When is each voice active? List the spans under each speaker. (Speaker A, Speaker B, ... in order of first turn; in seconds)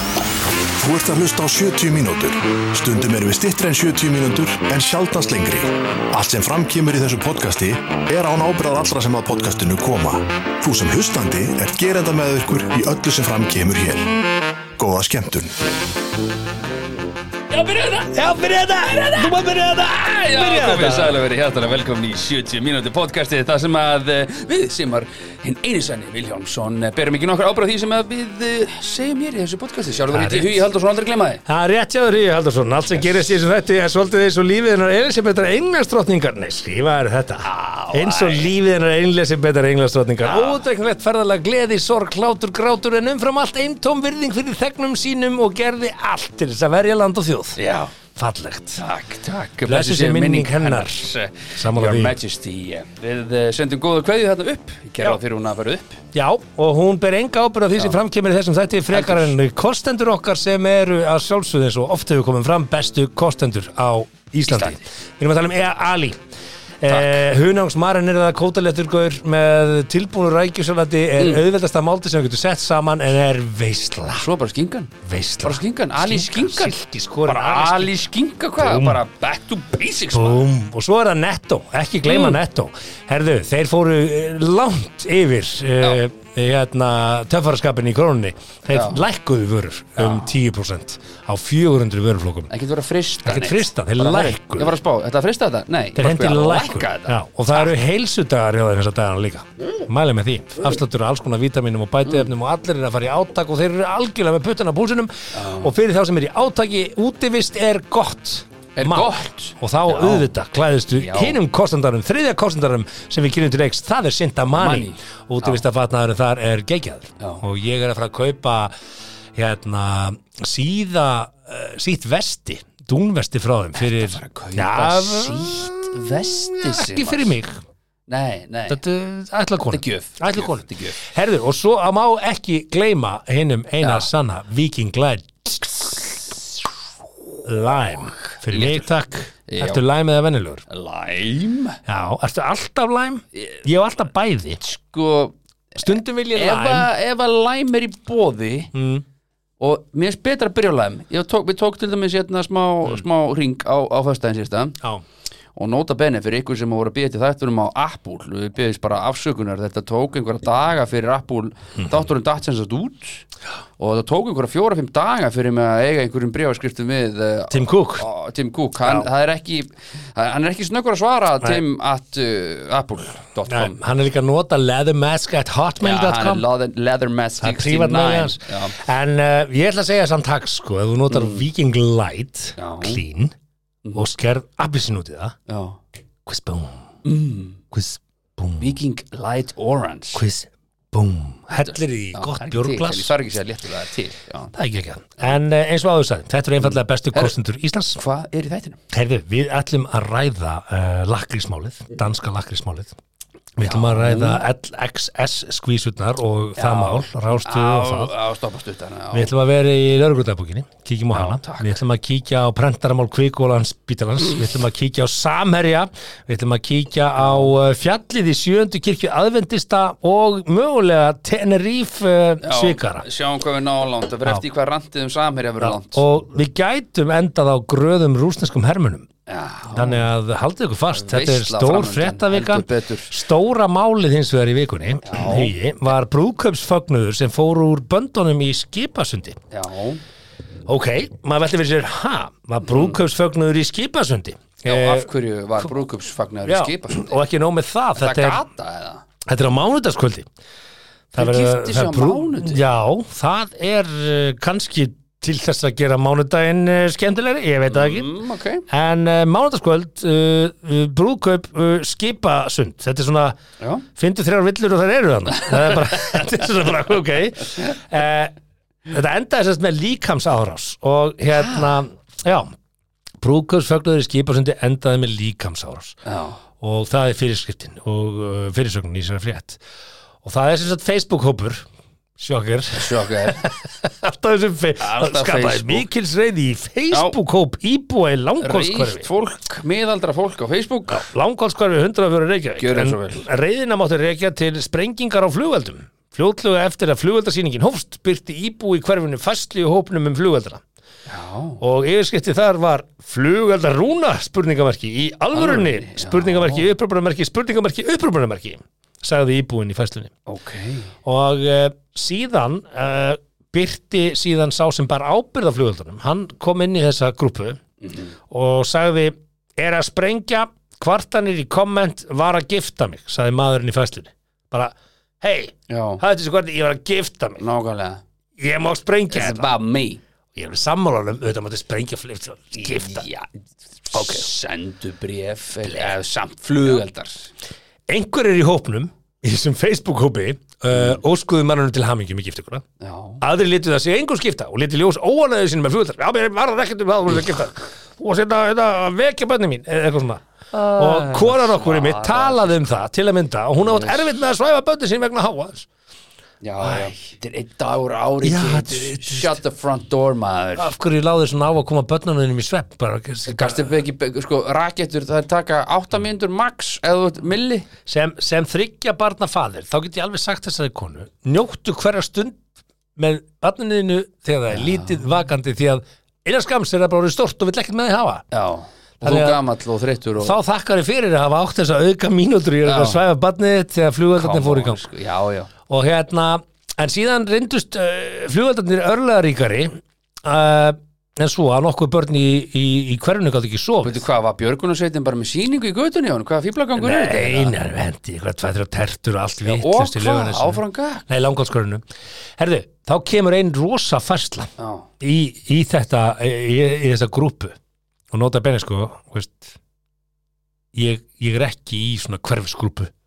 Speaker A: 0.8-14.1, 14.8-15.6
Speaker B: 17.5-18.1, 20.1-31.4, 37.4-38.5, 40.2-40.6, 47.6-47.9, 48.8-56.0, 58.9-59.3, 64.5-64.8, 66.9-67.2, 71.2-71.4, 74.2-80.4, 82.0-82.4, 88.7-89.0, 90.0-90.3, 92.5-97.7, 102.0-102.3, 105.3-105.7, 108.8-110.3, 111.0-111.4, 114.5-115.6, 123.8-127.3, 128.1-128.8, 129.7-131.0, 133.8-134.1, 138.0-138.9, 139.5-139.8, 140.7-141.8, 143.3-143.6, 144.6-148.7, 149.6-154.8, 155.6-163.2, 163.8-173.8, 175.8-178.8, 181.1-181.4, 182.6-183.0, 185.5-185.8, 187.0-187.6, 188.6-190.2, 191.5-194.5, 196.6-197.3, 197.9-198.8, 203.6-204.4, 206.6-209.3, 211.1-211.7, 217.2-217.6, 222.4-226.0, 229.3-230.0, 230.9-233.1, 235.0-235.5, 239.5-240.0, 242.6-243.0, 244.6-247.2, 247.9-249.0, 251.2-252.6, 257.7-258.6, 271.3-271.8, 276.0-276.4, 282.7-283.4, 284.8-285.9, 286.9-287.1, 288.4-291.1, 292.6-293.3, 301.1-301.6, 305.3-306.7, 310.3-310.9, 317.8-318.1, 325.7-326.0, 327.4-328.0, 329.1-330.0, 332.6-333.3, 333.9-337.3, 340.7-341.0, 342.8-343.2, 350.5-352.7, 353.6-354.2, 356.4-360.7, 363.3-367.7, 374.5-375.0, 378.3-380.4, 382.6-383.0, 384.1-385.5, 393.8-397.5, 399.4-401.1, 404.6-404.9
Speaker C: 18.1-21.2, 30.1-30.6, 31.4-47.6, 48.1-48.8, 49.7-52.1, 56.1-66.2, 66.8-74.3, 75.0-77.9, 78.6-79.0, 80.1-92.5, 93.2-94.8, 96.0-118.7, 119.3-127.6, 128.7-136.1, 137.4-140.6, 141.8-144.6, 145.8-146.9, 148.7-149.0, 167.5-168.0, 173.5-176.4, 177.4-183.3, 183.9-185.3, 186.2-186.8, 187.7-188.8, 190.1-193.1, 194.5-198.0, 198.9-202.9, 203.6-208.1, 209.1-223.0, 225.6-229.1, 229.7-239.4, 240.7-245.1, 246.4-248.4, 249.2-250.2, 251.1-258.1, 258.7-263.3, 264.0-268.3, 268.9-272.5, 273.2-275.9, 276.6-279.6, 280.2-281.6, 282.2-289.1, 290.9-300.6, 301.6-310.1, 311.0-317.6, 318.3-327.4, 328.4-329.5, 330.3-333.0, 333.9-334.3, 337.9-342.6, 343.2-350.2, 350.7-355.7, 356.6-356.9, 358.2-359.4, 360.6-363.7, 367.9-372.4, 373.0-378.2, 379.0-379.4, 380.2-384.8, 385.7-394.0, 396.8-401.8, 402.4-404.5, 405.0-407.6, 408.1-409.5, 410.7-412.9